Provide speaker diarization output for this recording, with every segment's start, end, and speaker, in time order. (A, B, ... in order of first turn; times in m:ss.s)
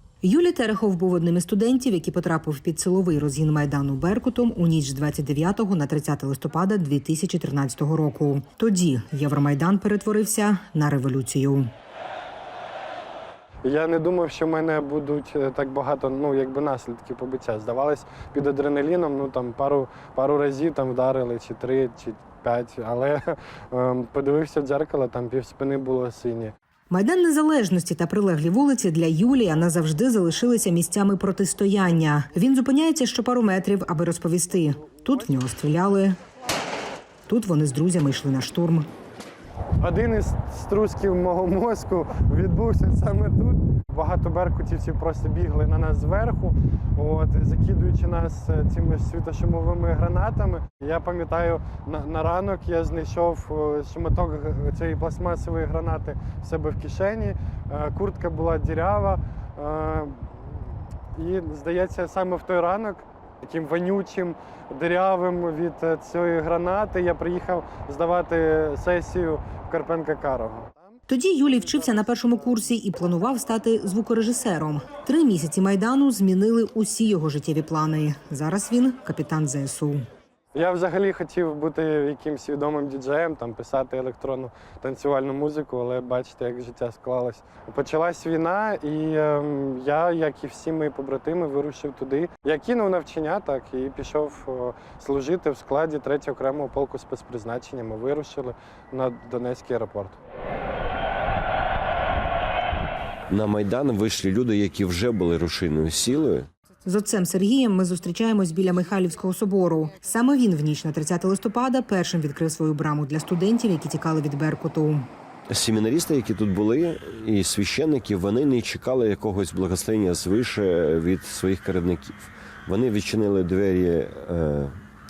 0:00.2-0:11.7 A
0:13.6-0:26.5 B
0:26.9-0:36.2 A
0:37.3-0:38.9 A
0:39.8-1:00.4 B
1:01.1-1:11.0 B
1:11.1-1:20.0 A
1:20.5-1:40.2 B
1:43.3-1:46.5 C
1:46.8-1:55.1 A
1:55.5-2:04.7 C